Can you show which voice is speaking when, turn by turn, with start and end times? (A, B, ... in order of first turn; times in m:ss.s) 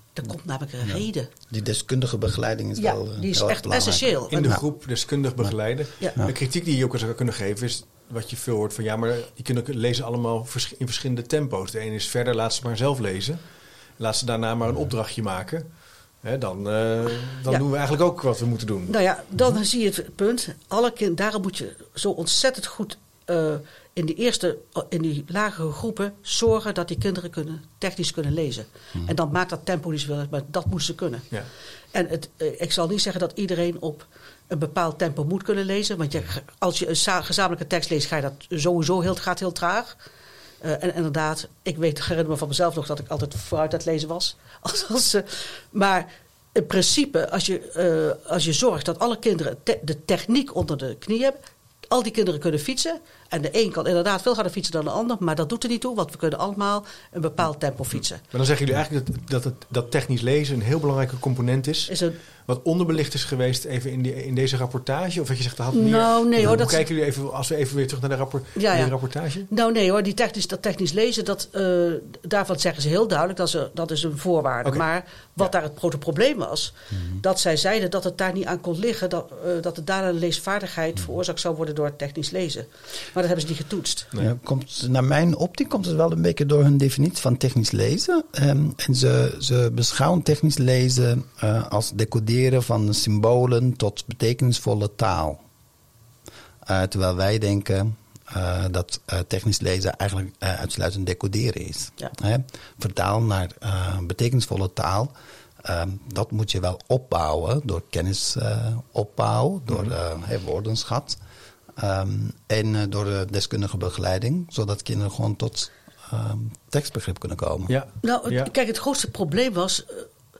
0:00.1-0:01.3 A
0:01.5-0:04.6 B
0:02.8-0:04.6 A
0:04.3-0:13.4 C
0:14.0-0:15.7 C
0:16.2-0:18.9 C
0:18.9-0:31.3 A
0:31.9-0:40.0 A
0:40.6-0:51.4 A
0:51.9-0:58.2 A
0:58.3-1:01.9 C
1:01.9-1:02.2 A
1:02.4-1:09.5 C
1:05.7-1:06.8 A
1:08.6-1:08.9 A
1:09.5-1:24.1 A
1:24.2-1:35.4 B
1:36.6-1:51.2 B
1:51.8-1:57.7 B
1:57.7-1:58.5 C
1:58.0-2:00.1 A